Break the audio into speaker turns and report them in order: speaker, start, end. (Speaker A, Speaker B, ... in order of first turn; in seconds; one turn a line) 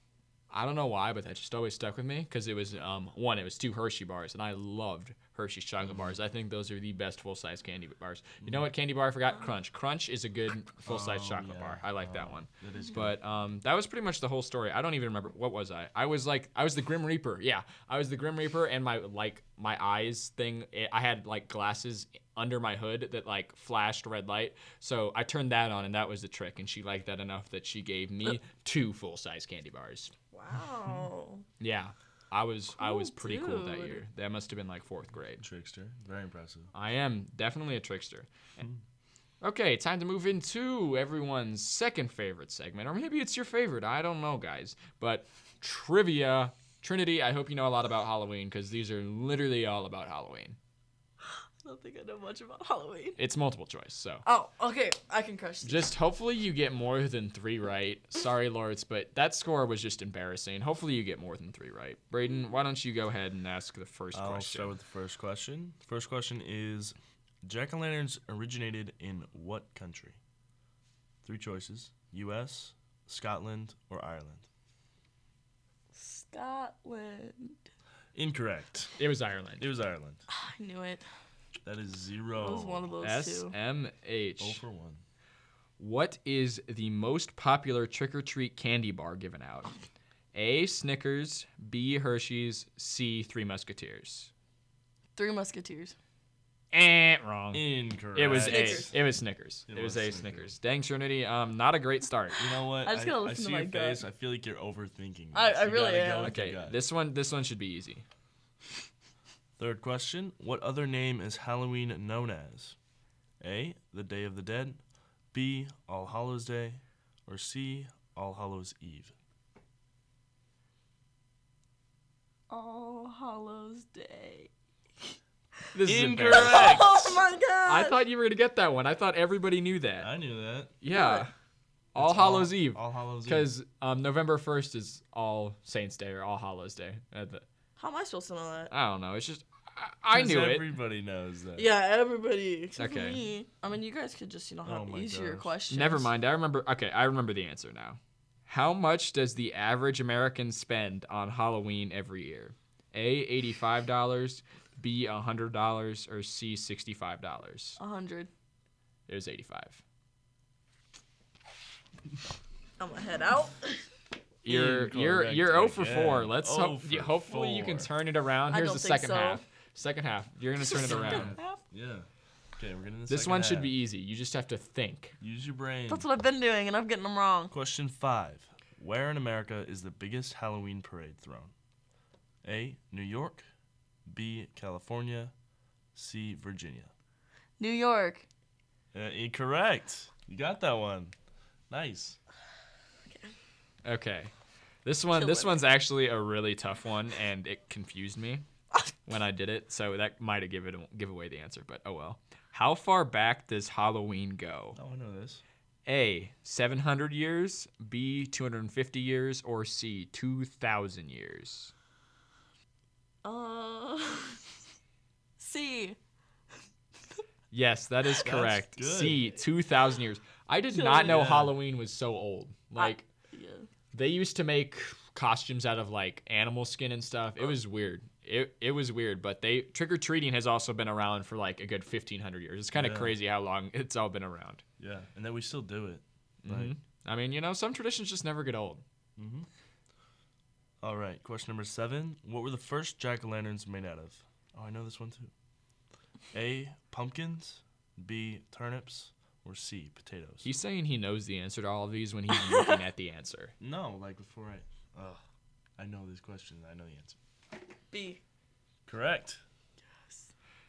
Speaker A: 0.5-30.1
Speaker B: 5.8-6.1
Speaker B: 10.8-13.2
Speaker C: 30.3-31.4
Speaker A: 31.6-35.4
Speaker C: 32.8-34.0
Speaker B: 35.4-36.7
Speaker A: 36.7-38.6
Speaker A: 39.4-50.6
Speaker C: 51.6-53.2
Speaker A: 53.2-54.2
Speaker C: 54.3-55.9
Speaker A: 55.6-64.7
Speaker B: 64.1-70.2
Speaker B: 71.2-74.5
Speaker C: 75.9-77.6
Speaker B: 78.2-79.0
Speaker A: 79.0-79.7
Speaker B: 79.6-80.2
Speaker C: 80.3-81.0
Speaker B: 81.7-82.9
Speaker C: 82.4-83.5
Speaker A: 83.0-84.6
Speaker B: 84.4-85.0
Speaker A: 85.8-89.7
Speaker A: 90.3-94.3
Speaker C: 95.2-96.0
Speaker A: 96.7-102.4
Speaker B: 97.5-99.0
Speaker C: 98.3-98.9
Speaker B: 99.7-100.5
Speaker B: 102.4-106.8
Speaker C: 102.8-104.0
Speaker C: 105.3-106.4
Speaker A: 106.2-108.0
Speaker B: 109.6-112.8
Speaker B: 113.4-114.8
Speaker B: 115.3-119.1
Speaker C: 122.5-124.5
Speaker A: 125.7-127.1
Speaker B: 125.8-127.2
Speaker C: 126.3-128.0
Speaker A: 127.7-130.1
Speaker B: 130.0-130.8
Speaker A: 130.8-131.3
Speaker C: 130.9-131.3
Speaker A: 131.9-137.5
Speaker B: 132.0-133.5
Speaker C: 137.8-138.7
Speaker A: 138.7-140.7
Speaker B: 140.1-141.7
Speaker C: 141.6-146.1
Speaker A: 142.8-143.2
Speaker B: 144.7-145.5
Speaker A: 145.7-157.8
Speaker C: 157.8-158.3
Speaker A: 159.1-159.8
Speaker C: 162.8-163.9
Speaker A: 164.4-171.4
Speaker B: 164.5-167.9
Speaker C: 168.5-169.4
Speaker C: 170.6-171.6
Speaker B: 170.9-173.8
Speaker A: 173.1-175.2
Speaker B: 175.2-176.1
Speaker C: 175.9-177.5
Speaker B: 177.5-181.5
Speaker B: 182.4-183.5
Speaker B: 184.1-185.3
Speaker B: 185.9-186.9
Speaker C: 187.6-188.3
Speaker B: 188.9-191.2
Speaker B: 191.7-192.2
Speaker C: 193.1-193.3
Speaker A: 193.8-194.3
Speaker A: 194.8-198.4
Speaker C: 195.1-195.6
Speaker A: 199.1-204.8
Speaker B: 204.8-205.4
Speaker A: 205.9-211.7
Speaker C: 213.2-214.4
Speaker C: 215.4-216.0
Speaker A: 217.5-223.1
Speaker B: 218.2-219.2
Speaker C: 220.7-221.2
Speaker B: 221.0-221.6
Speaker C: 222.8-223.7
Speaker A: 223.9-234.6
Speaker B: 232.8-233.2
Speaker B: 234.8-236.7
Speaker A: 236.4-238.8
Speaker B: 239.2-239.5
Speaker B: 240.8-245.3
Speaker B: 246.3-250.5
Speaker A: 250.4-253.5
Speaker C: 252.3-252.8
Speaker B: 253.6-255.2
Speaker B: 255.8-257.2
Speaker C: 257.9-258.2
Speaker B: 258.9-259.4